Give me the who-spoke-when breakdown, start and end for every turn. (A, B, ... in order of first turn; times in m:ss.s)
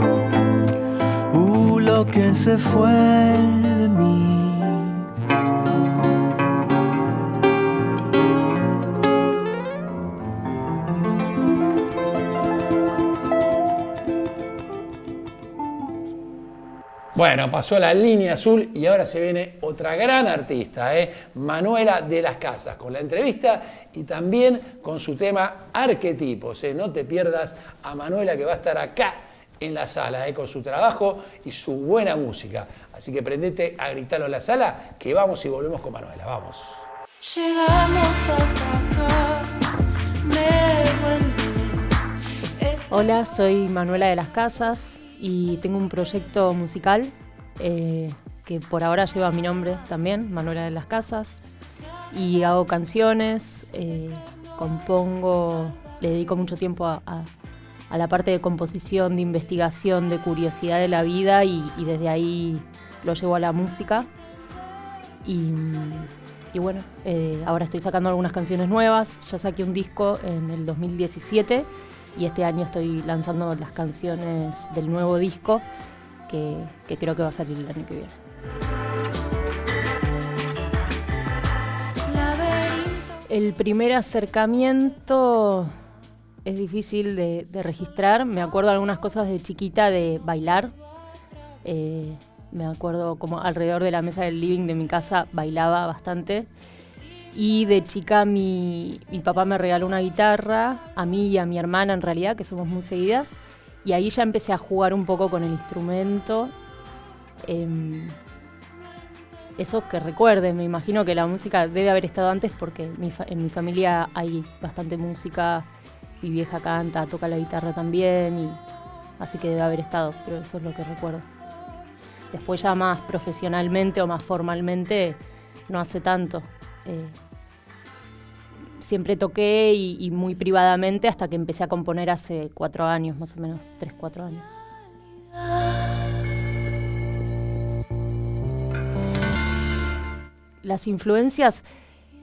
0:01.3-0:05.1 A
0:17.2-0:36.8 B
0:37.2-0:39.6 C
0:40.2-0:42.0 C
0:42.6-0:42.9 C
0:42.9-0:51.4 D
0:52.1-0:57.3 D
0:57.9-1:04.1 D
1:05.2-1:15.7 D
1:16.3-1:18.2 D
1:22.1-1:23.1 C
1:23.3-1:25.7 D
1:26.4-1:30.8 D
1:31.6-1:36.5 D
1:37.3-1:46.5 D
1:47.4-1:48.2 D
1:49.6-1:55.7 D
1:56.2-1:58.6 D
1:59.2-2:01.3 D
2:02.3-2:07.2 D
2:08.8-2:14.6 D
2:20.6-2:21.6 D